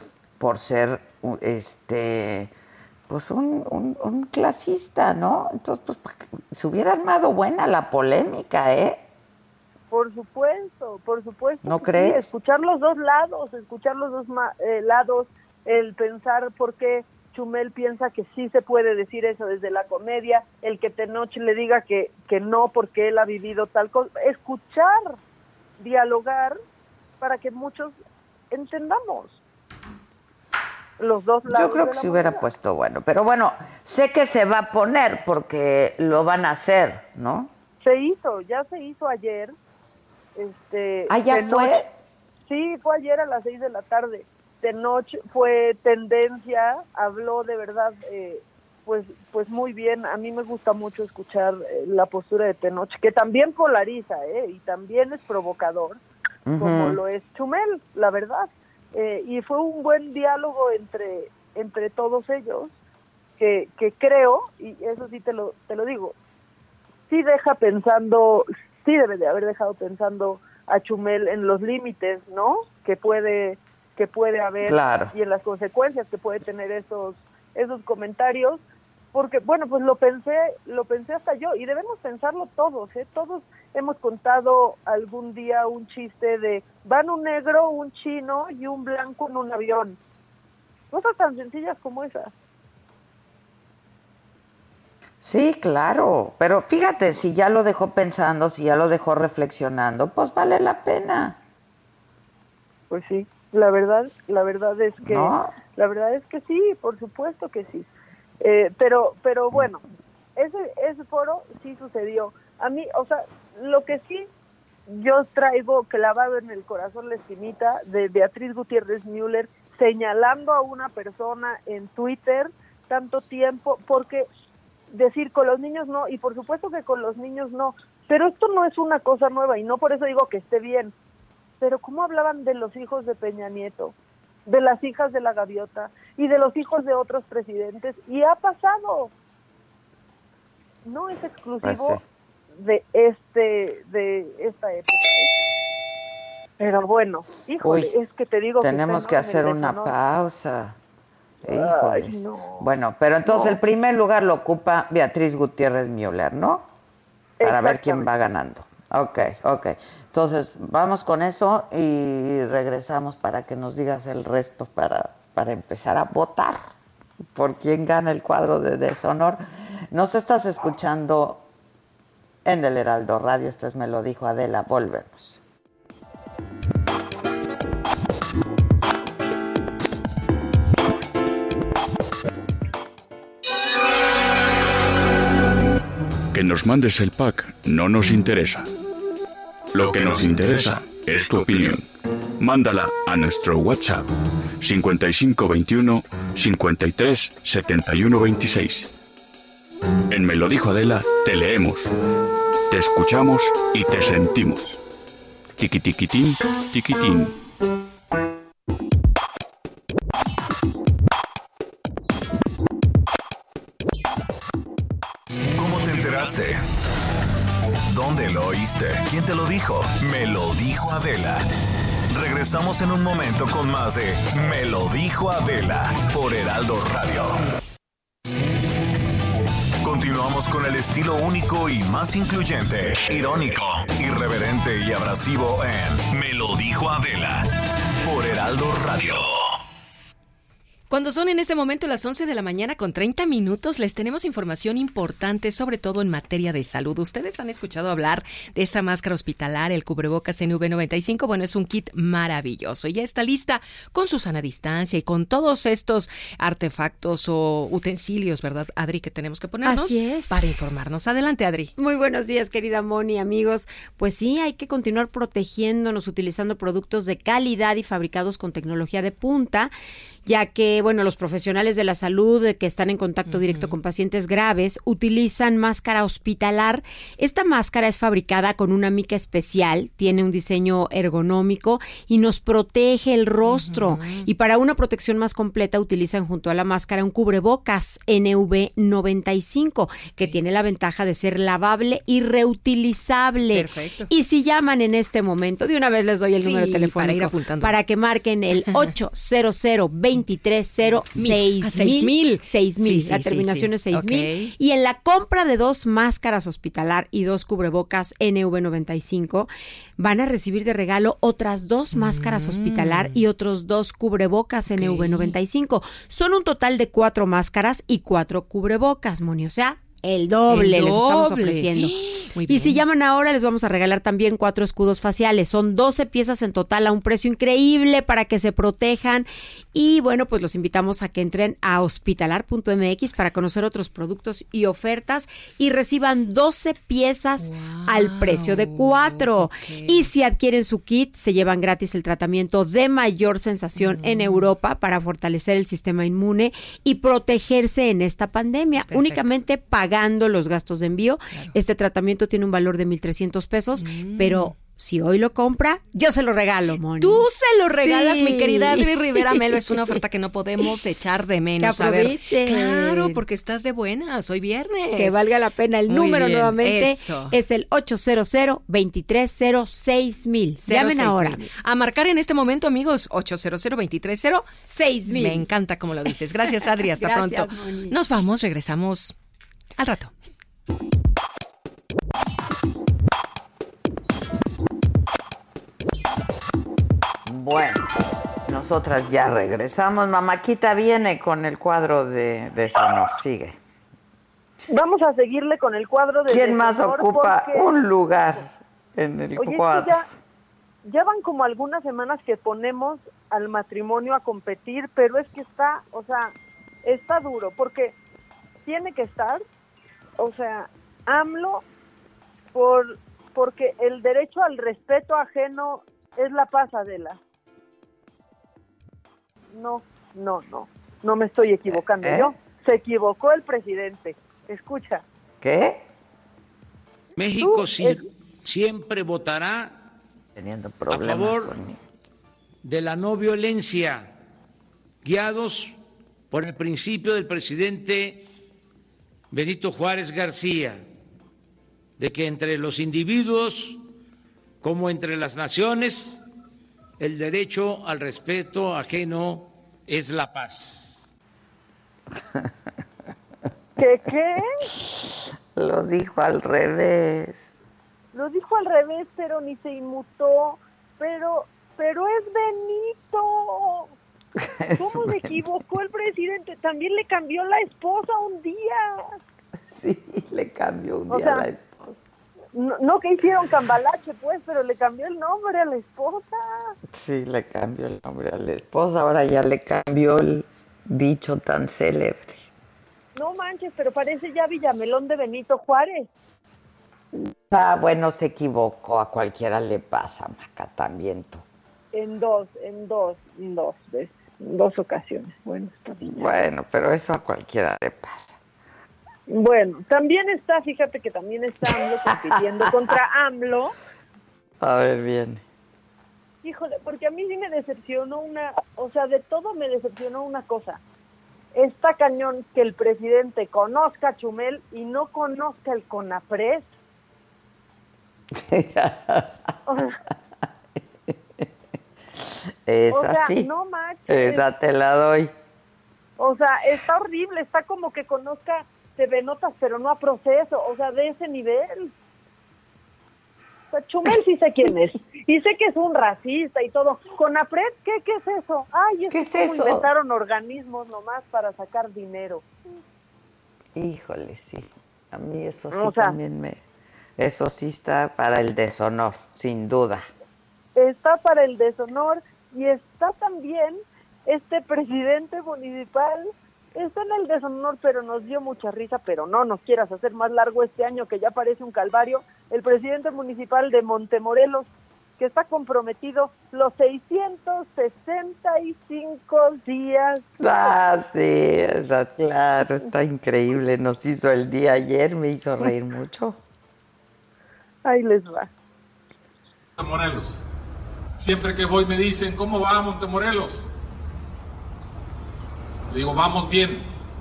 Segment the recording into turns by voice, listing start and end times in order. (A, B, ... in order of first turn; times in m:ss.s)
0:00.4-0:02.5 A
0:03.1-0:09.0 A
0:09.9-0:25.2 B
0:11.6-0:12.3 A
0:25.8-0:26.6 B
0:27.2-0:28.0 B
0:28.5-0:29.4 B
0:31.0-0:32.4 B
0:31.5-0:37.5 A
0:37.8-0:39.5 B
0:40.4-0:41.8 B
0:41.1-0:41.9 A
0:42.5-0:56.0 B
0:56.4-0:57.0 A
0:56.6-1:02.7 B
1:03.4-1:06.2 B
1:07.1-1:18.6 B
1:14.6-1:15.1 A
1:19.1-1:30.0 B
1:30.9-1:32.3 B
1:35.2-1:41.4 A
1:42.9-1:47.9 B
1:45.0-1:45.5 A
1:48.4-1:49.8 B
1:50.4-1:54.3 B
1:54.9-2:04.3 B
2:04.9-2:10.9 B
2:11.6-2:13.9 B
2:14.4-2:19.1 B
2:20.8-2:22.0 B
2:21.6-2:22.0 A
2:22.6-2:25.3 B
2:26.6-2:30.0 B
2:27.6-2:27.9 A
2:28.6-2:30.8 A
2:31.4-2:36.7 A
2:31.4-2:32.7 B
2:33.2-2:33.6 B
2:37.4-2:38.1 B
2:37.4-2:46.7 A
2:47.3-2:49.4 A
2:49.9-2:51.4 A
2:52.4-2:55.4 A
3:06.3-3:08.7 C
3:09.7-3:11.8 C
3:12.4-3:18.9 C
3:20.1-3:21.9 C
3:22.7-3:24.8 C
3:25.6-3:27.4 C
3:35.5-3:36.6 D
3:37.9-3:41.5 D
3:42.1-3:47.4 D
3:49.8-3:57.5 D
3:58.0-3:59.4 D
4:00.9-4:21.7 E
4:19.6-4:20.5 F
4:21.8-4:29.7 F
4:30.2-6:00.0 F
4:33.2-4:33.8 E
4:43.4-4:44.3 E
4:53.5-4:54.1 E
4:56.4-4:57.8 E
5:00.8-5:04.5 E
5:11.9-5:13.2 E
5:14.7-5:15.3 E
5:20.5-5:22.8 E
5:37.4-5:40.1 E
5:43.8-5:44.5 E
5:48.8-5:49.3 E
5:53.8-5:54.6 E
5:57.0-6:05.2 E
6:01.6-6:03.2 F
6:04.9-6:11.5 F
6:05.9-6:07.4 E
6:10.6-6:14.5 E
6:14.7-6:15.5 F
6:15.0-6:19.1 E
6:16.9-6:18.0 F
6:19.8-6:20.1 E
6:27.2-6:27.9 A
6:28.5-6:33.6 A
6:34.7-6:37.7 B
6:36.3-6:40.0 A
6:39.4-6:40.1 B
6:40.8-6:48.0 B
6:48.6-6:49.4 B
6:50.2-6:51.6 B
6:52.5-6:57.2 B
6:59.5-7:05.0 B
7:01.7-7:02.3 A
7:05.4-7:05.8 A
7:07.2-7:09.8 G
7:07.4-7:08.0 B
7:10.3-7:11.8 A
7:10.9-7:11.5 G
7:12.6-7:14.1 G
7:15.0-7:15.8 G
7:16.3-7:18.3 G
7:19.3-7:20.8 G
7:22.0-7:23.8 G
7:24.6-7:26.2 G
7:27.0-7:31.0 G
7:33.8-7:34.5 B
7:34.8-7:37.5 A
7:38.1-7:43.9 B
7:44.4-7:45.4 A
7:44.8-7:49.2 B
7:49.7-7:52.0 A
7:51.1-7:51.5 B
7:52.5-7:56.8 B
7:56.9-8:02.5 A
8:03.1-8:06.1 B
8:07.1-8:11.4 A
8:11.9-8:16.5 B
8:16.0-8:18.4 A
8:19.3-8:23.8 B
8:21.7-8:22.4 A
8:24.6-8:25.4 A
8:26.4-8:30.8 B
8:31.5-8:36.7 B
8:38.3-8:39.5 A
8:39.7-8:40.0 B
8:41.1-8:41.4 A
8:42.6-8:43.5 A
8:42.9-8:44.4 B
8:44.1-8:45.3 A
8:46.2-8:51.9 B
8:53.7-9:02.4 B
8:59.1-8:59.9 A
9:03.7-9:06.6 A
9:05.7-9:06.2 B
9:07.2-9:10.0 A
9:10.7-9:24.7 B
9:25.2-9:30.8 B
9:30.4-9:36.4 A
9:37.8-9:38.5 B
9:39.8-9:40.4 H
9:41.2-9:43.6 H
9:45.9-9:46.8 H